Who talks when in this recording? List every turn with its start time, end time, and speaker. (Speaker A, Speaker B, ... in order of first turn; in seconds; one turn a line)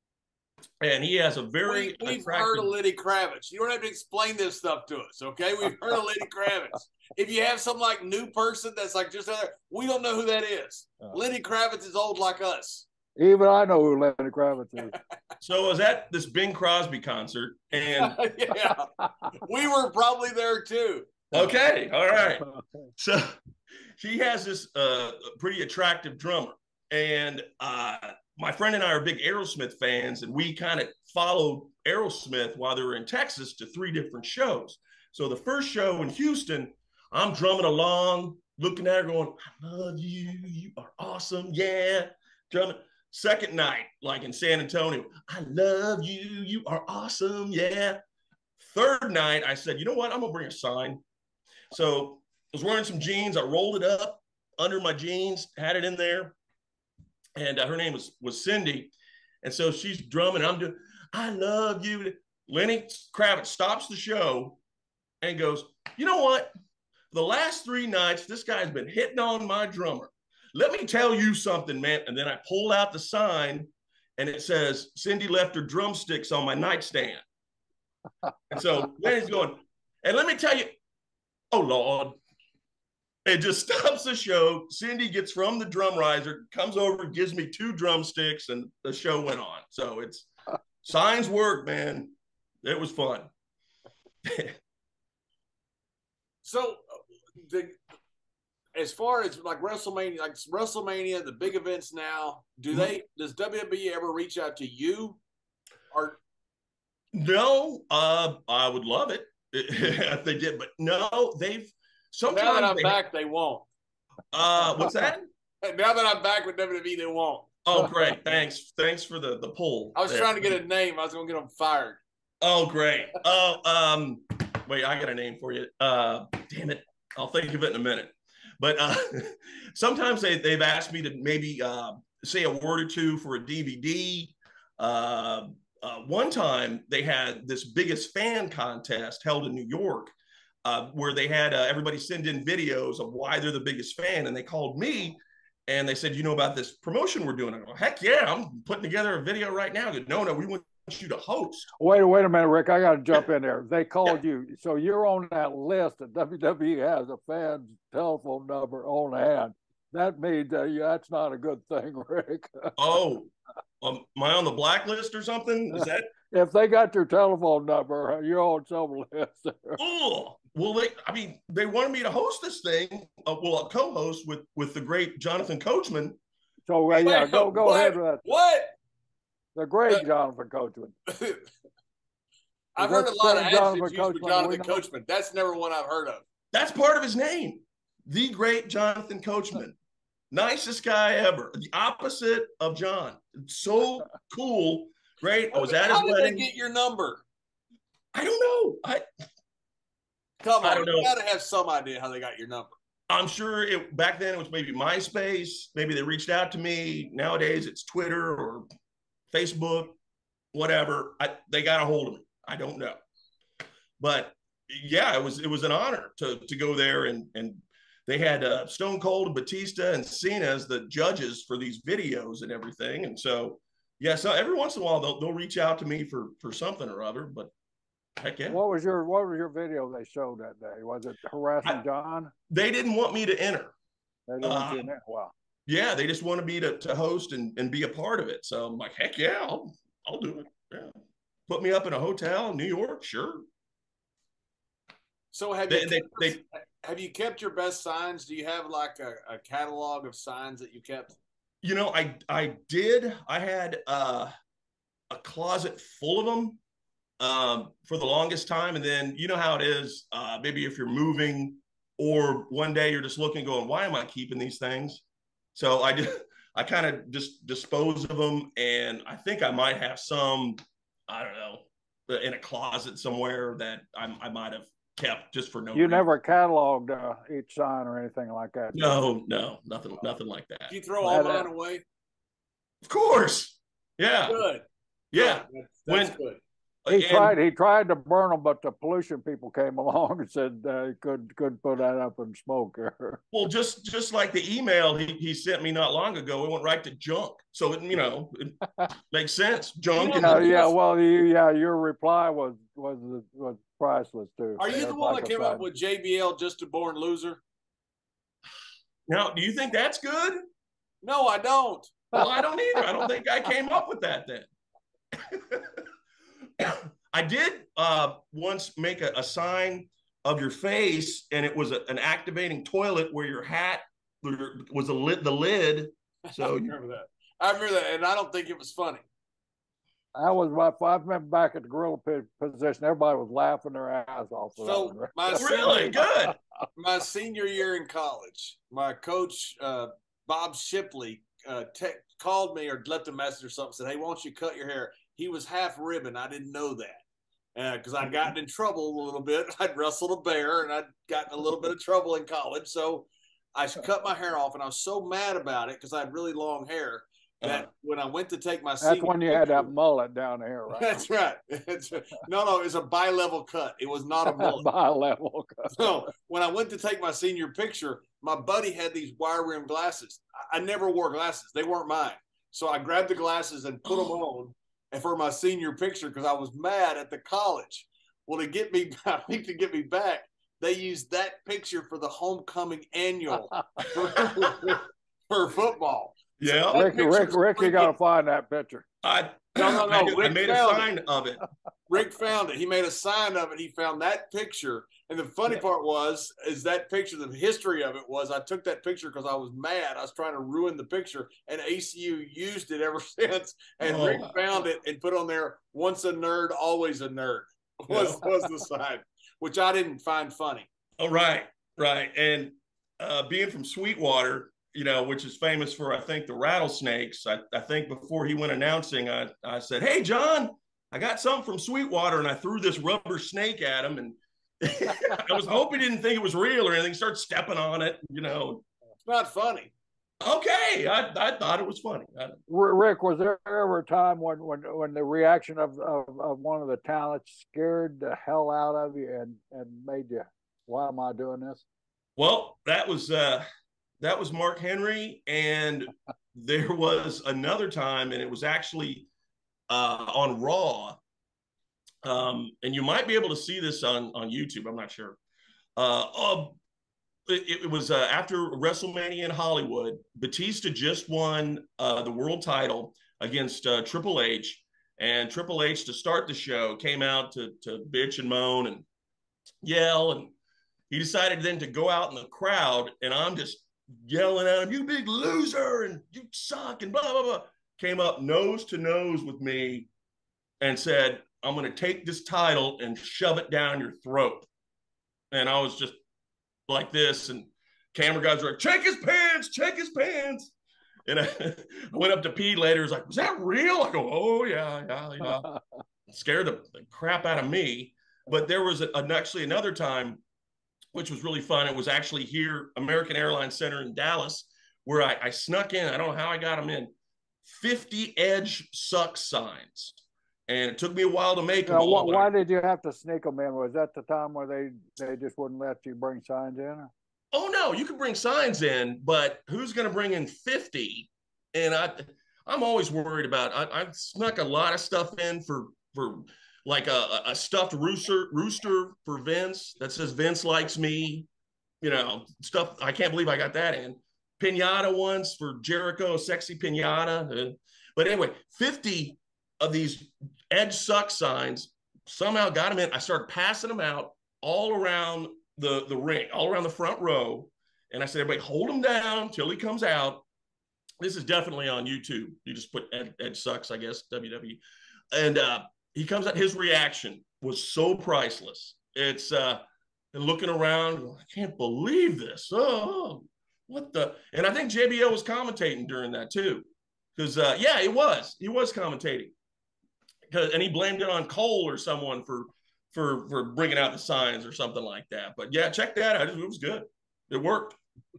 Speaker A: 0.8-2.7
Speaker B: 1.6-12.8
Speaker C: 13.2-14.9
Speaker A: 15.4-18.1
Speaker B: 17.9-21.2
Speaker C: 18.6-19.3
Speaker A: 21.3-22.4
Speaker C: 22.2-22.6
Speaker A: 23.0-23.4
Speaker A: 24.0-48.0
Speaker A: 48.6-51.0
Speaker A: 51.7-56.4
Speaker A: 57.4-64.6
Speaker A: 65.2-66.5
Speaker A: 67.1-77.2
Speaker A: 78.5-80.8
Speaker A: 81.5-82.2
Speaker A: 83.2-90.3
Speaker A: 90.8-93.3
Speaker A: 94.2-94.5
Speaker B: 96.4-96.8
Speaker B: 97.4-97.7
Speaker B: 98.7-105.2
Speaker B: 105.9-106.2
Speaker A: 107.1-113.0
Speaker B: 112.3-113.7
Speaker A: 114.3-115.3
Speaker B: 115.6-117.5
Speaker A: 117.6-120.5
Speaker B: 119.9-122.0
Speaker A: 122.4-151.7
Speaker C: 151.8-162.8
Speaker A: 162.8-166.1
Speaker C: 165.7-169.8
Speaker A: 169.8-176.2
Speaker C: 176.7-178.2
Speaker B: 176.9-178.7
Speaker C: 179.6-180.9
Speaker B: 181.1-181.5
Speaker B: 182.8-186.2
Speaker C: 182.8-184.8
Speaker A: 186.5-189.8
Speaker A: 190.3-196.5
Speaker B: 195.5-197.2
Speaker A: 198.1-199.1
Speaker B: 200.4-202.7
Speaker A: 200.6-201.1
Speaker A: 203.1-208.7
Speaker A: 209.3-209.9
Speaker A: 210.5-213.0
Speaker A: 214.0-227.5
Speaker A: 228.2-228.6
Speaker C: 228.5-232.3
Speaker A: 232.5-233.7
Speaker C: 234.3-235.3
Speaker A: 234.4-234.9
Speaker A: 235.7-240.9
Speaker A: 241.5-243.4
Speaker B: 245.3-251.1
Speaker A: 245.7-246.4
Speaker A: 251.6-254.3
Speaker A: 255.1-256.6
Speaker A: 257.2-265.0
Speaker A: 265.5-276.0
Speaker C: 275.7-279.0
Speaker A: 278.7-280.7
Speaker B: 280.7-281.8
Speaker C: 281.0-281.5
Speaker A: 282.8-284.4
Speaker B: 284.3-286.4
Speaker A: 285.1-286.1
Speaker A: 286.8-287.4
Speaker C: 286.9-293.2
Speaker A: 293.3-298.6
Speaker A: 299.1-300.6
Speaker B: 299.9-300.7
Speaker C: 300.1-305.6
Speaker B: 304.6-307.4
Speaker A: 309.1-310.4
Speaker B: 311.0-311.9
Speaker A: 312.1-314.5
Speaker A: 315.1-315.8
Speaker A: 316.6-326.7
Speaker B: 326.3-329.0
Speaker C: 330.1-336.0
Speaker B: 334.6-336.0
Speaker A: 335.4-336.4
Speaker B: 336.8-347.0
Speaker B: 347.5-359.7
Speaker A: 357.4-357.6
Speaker C: 358.8-361.0
Speaker B: 360.7-364.6
Speaker C: 364.2-365.9
Speaker B: 365.7-387.9
Speaker A: 384.0-384.7
Speaker A: 386.4-386.9
Speaker C: 386.7-388.8
Speaker A: 389.0-391.4
Speaker B: 389.6-390.9
Speaker B: 391.9-410.7
Speaker A: 403.8-404.3
Speaker A: 407.9-408.2
Speaker A: 411.0-428.6
Speaker B: 429.0-429.7
Speaker A: 430.2-432.4
Speaker C: 432.5-441.6
Speaker A: 442.1-443.4
Speaker A: 444.0-449.1
Speaker A: 449.7-451.0
Speaker A: 452.0-455.2
Speaker A: 455.8-456.6
Speaker A: 457.3-468.9
Speaker A: 469.6-470.3
Speaker A: 470.9-479.9
Speaker A: 480.6-484.5
Speaker A: 485.3-486.0
Speaker A: 486.7-490.5
Speaker A: 491.1-495.5
Speaker C: 495.2-495.6
Speaker A: 496.1-500.2
Speaker A: 500.9-506.9
Speaker A: 507.4-512.3
Speaker C: 511.6-516.9
Speaker A: 517.3-531.3
Speaker A: 531.8-550.2
Speaker A: 551.0-559.6
Speaker A: 560.1-569.3
Speaker A: 570.3-577.8